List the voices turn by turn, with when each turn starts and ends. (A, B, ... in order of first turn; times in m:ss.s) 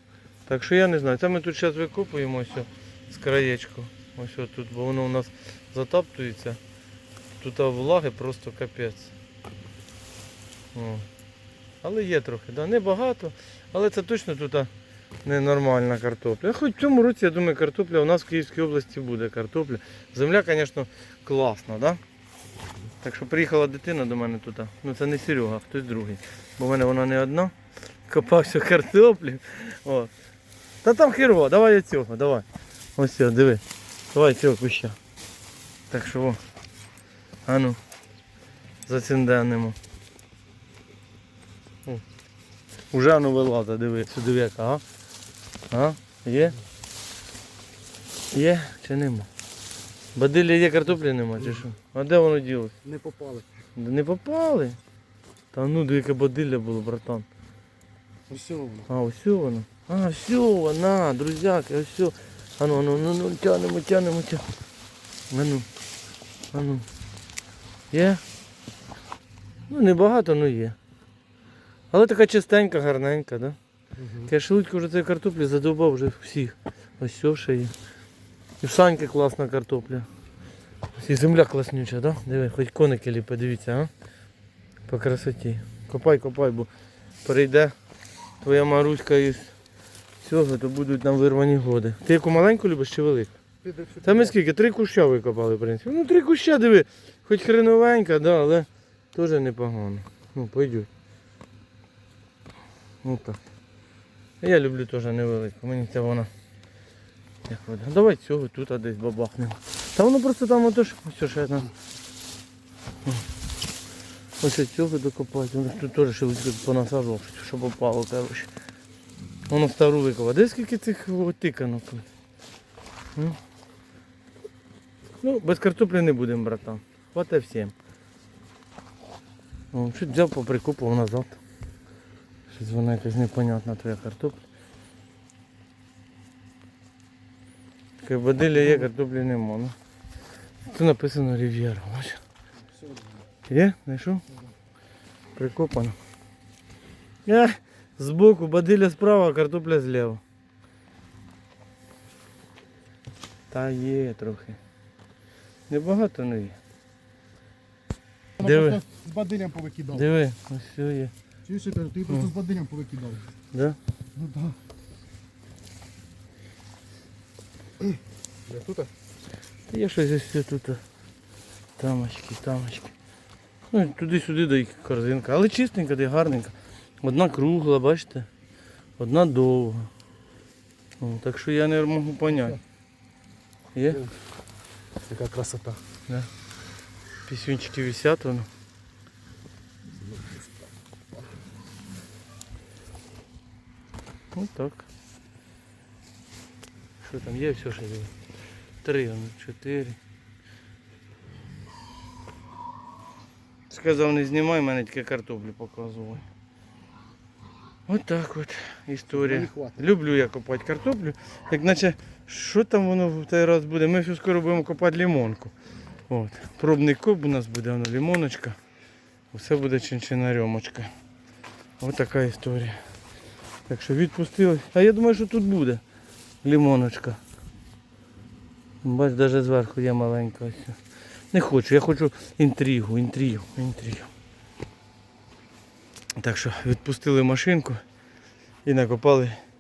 0:00.5-0:06.6 A
0:07.4-0:09.1 A
0:10.7-0:11.0 A
0:11.8-0:14.7 A
0:15.2-0:22.0 A
0:23.0-0:27.5 A
0:28.1-0:30.1 A
0:30.8-0:32.4 A
0:33.0-0:35.0 A
0:35.9-0:36.4 A
0:37.4-0:37.8 A
0:38.9-0:39.8 A
0:42.9-0:44.8 A
0:45.7-0:46.6 A
0:48.3-0:49.3 A
0:50.1-0:52.7 A
0:52.8-0:53.4 B
0:53.8-0:54.8 A
0:55.5-0:57.2 A
0:58.3-0:58.8 B
0:58.9-1:04.4 A
1:05.3-1:05.6 A
1:06.5-1:06.8 A
1:07.9-1:08.2 A
1:09.7-1:10.8 A
1:11.9-1:13.6 A
1:14.0-1:14.3 B
1:14.2-1:17.7 A
1:18.6-1:20.1 A
1:21.0-1:23.9 A
1:24.9-1:26.7 A
1:27.2-1:27.7 A
1:28.4-1:29.5 A
1:30.2-1:33.3 A
1:33.6-1:34.3 B
1:34.0-1:40.9 A
1:43.0-1:43.4 A
1:44.4-1:46.3 A
1:47.5-1:51.7 A
1:54.4-1:58.5 A
1:59.5-2:02.0 A
2:05.2-2:07.7 A
2:09.7-2:11.4 A
2:12.5-2:14.4 A
2:18.0-2:19.7 A
2:20.7-2:22.2 A
2:22.8-2:23.2 B
2:23.5-2:24.2 A
2:25.4-2:25.9 A
2:27.2-2:30.2 A
2:33.5-2:34.6 A
2:35.7-2:36.6 A
2:38.4-2:38.8 A
2:38.4-2:40.0 B
2:39.9-2:41.1 A
2:41.4-2:43.2 B
2:43.5-2:43.8 A
2:44.2-2:44.6 B
2:48.5-2:48.9 B
2:49.7-2:50.8 A
2:51.8-2:52.9 A
2:53.7-2:58.3 A
2:59.0-2:59.9 A
3:01.0-3:02.6 A
3:03.7-3:04.0 A
3:05.0-3:05.8 B
3:07.2-3:08.5 A
3:10.0-3:10.6 B
3:14.3-3:14.8 A
3:17.0-3:18.1 A
3:18.8-3:20.0 A
3:23.7-3:26.2 A
3:27.9-3:35.5 A
3:29.2-3:29.8 B
3:36.1-3:38.6 A
3:39.3-3:40.9 A
3:41.8-3:42.8 A
3:43.7-3:45.8 A
3:46.4-3:47.2 A
3:48.8-3:50.8 A
3:51.3-3:54.1 A
3:56.2-3:57.8 A
3:58.6-3:59.4 A